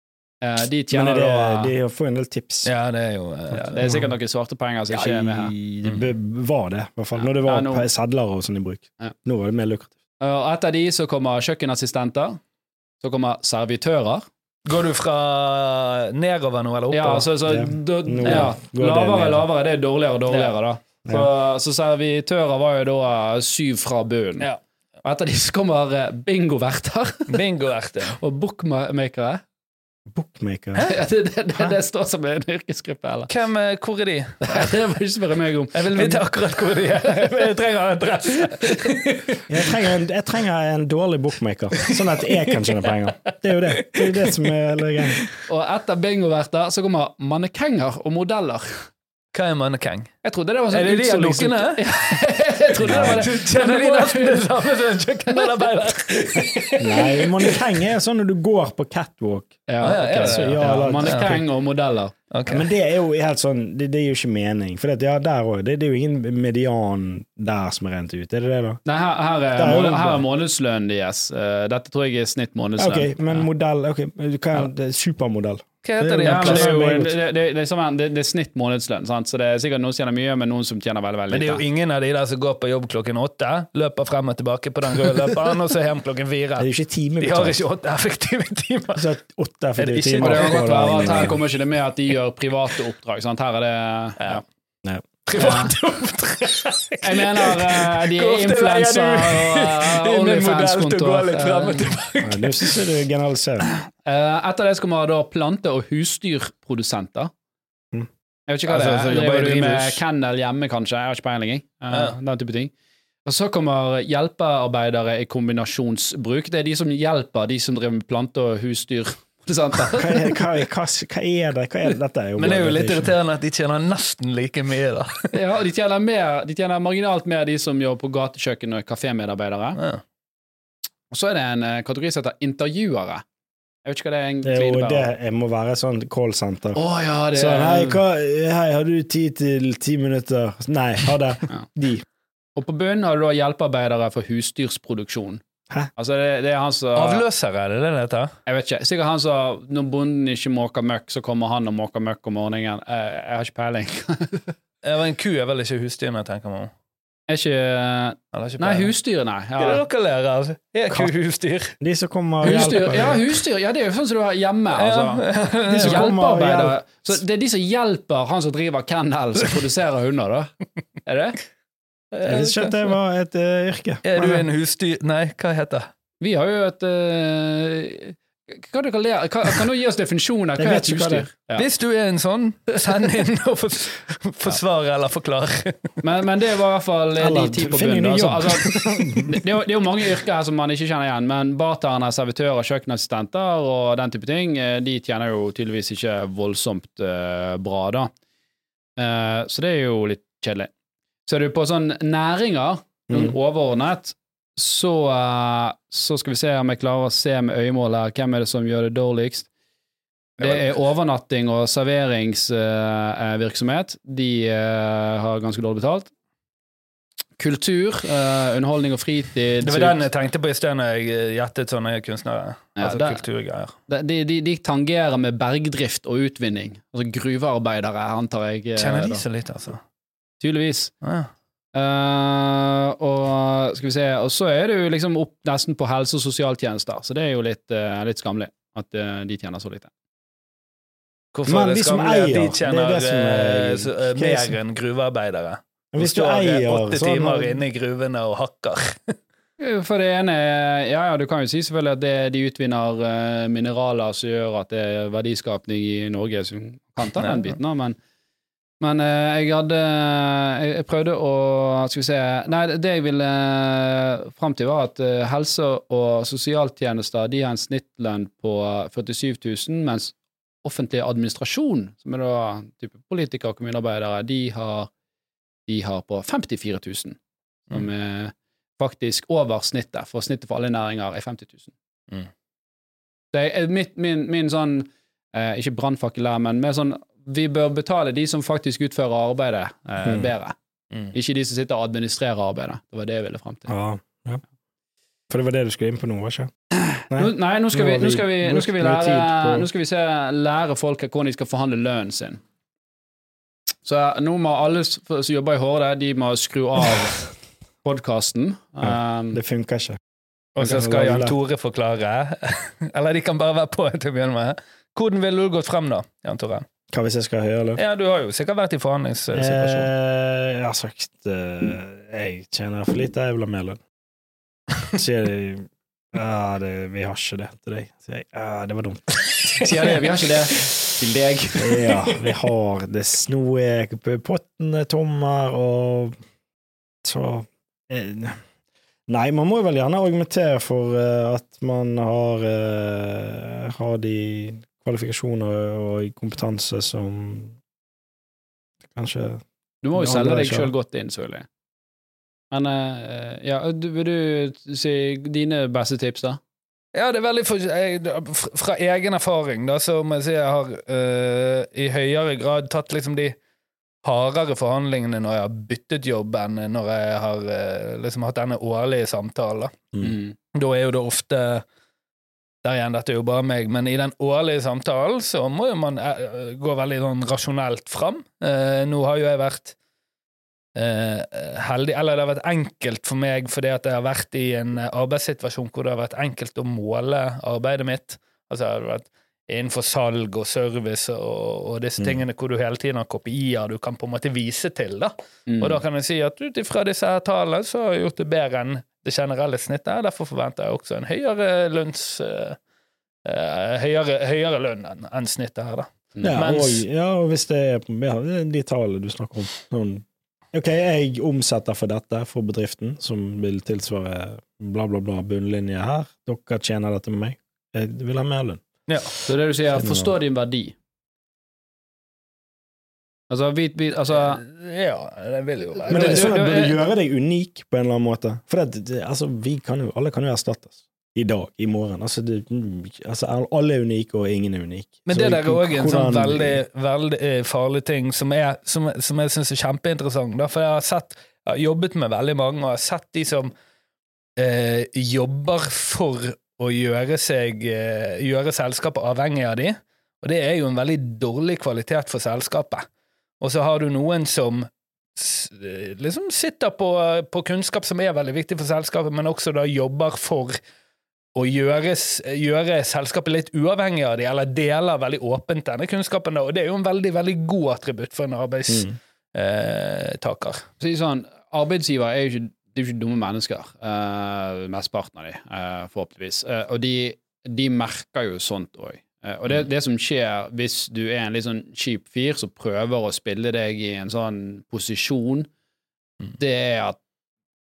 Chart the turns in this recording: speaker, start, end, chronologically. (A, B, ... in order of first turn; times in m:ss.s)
0:00.4-0:01.7 A
0:00.9-0:02.7 B
0:02.6-0:04.0 C
0:03.6-0:05.5 A
0:03.8-0:04.1 B
0:04.9-0:06.1 C
0:05.6-0:09.9 B
0:07.2-0:07.8 A
0:10.2-0:12.4 A
0:13.0-0:14.2 A
0:14.6-0:17.3 C
0:16.9-0:24.5 A
0:17.4-0:19.4 B
0:20.3-0:20.5 C
0:25.0-0:27.3 A
0:27.3-0:28.2 C
0:28.1-0:29.4 A
0:30.1-0:30.8 B
0:30.8-0:33.3 A
0:33.3-0:34.8 C
0:34.4-0:36.2 A
0:35.7-0:39.7 C
0:39.5-0:45.2 B
0:41.8-0:45.3 C
0:45.5-0:48.9 A
0:49.3-0:50.1 C
0:50.2-0:54.5 A
0:50.7-0:52.2 C
0:52.8-0:53.2 B
0:52.8-0:57.6 C
0:55.3-0:55.6 A
0:56.8-1:01.4 B
0:59.7-1:02.1 A
0:59.8-1:01.4 C
1:02.3-1:02.7 C
1:02.5-1:08.8 B
1:08.8-1:13.4 A
1:09.6-1:10.2 B
1:12.8-1:17.1 B
1:15.8-1:16.8 C
1:16.2-1:21.6 A
1:21.3-1:26.7 C
1:26.6-1:27.6 B
1:27.2-1:29.1 C
1:29.0-1:31.4 B
1:29.8-1:31.4 C
1:30.2-1:34.4 A
1:35.3-1:42.8 C
1:35.4-1:35.7 A
1:37.0-1:41.9 A
1:42.2-1:43.7 B
1:43.7-1:47.3 A
1:48.5-1:52.7 A
1:48.7-1:50.0 C
1:51.9-1:52.2 C
1:53.2-2:00.4 A
2:00.0-2:03.1 B
2:02.4-2:05.3 C
2:05.3-2:09.8 A
2:09.8-2:10.0 C
2:11.1-2:13.2 A
2:13.8-2:15.1 A
2:14.4-2:16.8 B
2:16.7-2:18.0 A
2:17.3-2:22.0 B
2:22.6-2:25.4 A
2:26.0-2:27.2 A
2:26.9-2:28.3 C
2:28.4-2:34.5 A
2:34.8-2:36.7 C
2:37.3-2:39.8 A
2:38.3-2:38.9 C
2:39.6-2:41.7 C
2:41.8-2:43.2 B
2:42.4-2:50.5 A
2:42.4-2:43.2 C
2:44.8-2:46.1 C
2:45.7-2:46.8 B
2:51.0-2:51.4 A
2:52.1-2:52.9 C
2:52.2-2:54.4 B
2:54.0-2:55.9 C
2:56.2-3:01.6 A
3:00.6-3:01.3 B
3:01.6-3:06.0 C
3:06.0-3:18.1 A
3:07.2-3:09.4 B
3:19.0-3:20.7 A
3:21.2-3:29.5 A
3:23.1-3:23.3 B
3:30.4-3:30.8 C
3:30.4-3:36.1 A
3:37.4-3:40.0 A
3:39.6-3:43.8 C
3:42.8-3:43.2 A
3:43.9-3:49.2 A
3:48.8-3:49.8 C
3:50.4-3:50.9 A
3:51.0-3:51.3 C
3:51.7-3:59.9 A
4:01.3-4:09.1 C
4:01.5-4:04.5 B
4:05.9-4:07.6 B
4:09.6-4:18.0 A
4:18.8-4:34.9 A
4:35.7-4:37.2 A
4:37.7-4:41.7 A
4:43.3-4:50.6 A
4:50.0-4:50.3 B
4:51.1-4:53.7 A
4:53.7-4:54.4 B
4:55.3-4:56.5 B
4:56.8-5:02.4 A
4:57.1-4:59.7 B
5:03.8-5:07.3 A
5:07.8-5:09.4 A
5:08.8-5:10.0 B
5:10.6-5:16.6 C
5:10.6-5:11.3 B
5:16.9-5:17.8 B
5:17.8-5:19.9 C
5:19.3-5:23.8 B
5:24.9-5:29.6 B
5:29.6-5:32.0 A
5:31.6-5:36.2 B
5:37.0-5:38.4 B
5:39.1-5:47.6 B
5:48.9-5:49.4 B
5:49.8-5:51.4 A
5:49.9-5:50.7 B
5:52.5-5:56.4 A
5:56.9-6:03.4 C
6:04.0-6:09.8 C
6:10.0-6:10.3 A
6:10.5-6:11.6 C
6:12.6-6:19.7 C
6:20.8-6:42.6 C
6:35.5-6:35.8 A
6:43.2-6:46.8 C
6:46.2-6:58.6 B
6:58.9-6:59.1 C
6:59.3-7:00.7 A
6:59.8-7:00.1 B
7:03.3-7:04.4 A
7:04.1-7:06.4 C
7:05.8-7:06.8 A
7:05.9-7:16.6 B
7:15.1-7:23.5 C
7:24.4-7:32.8 C
7:33.4-7:40.6 C
7:41.3-7:50.7 C
7:50.8-8:05.5 A
8:06.4-8:07.0 A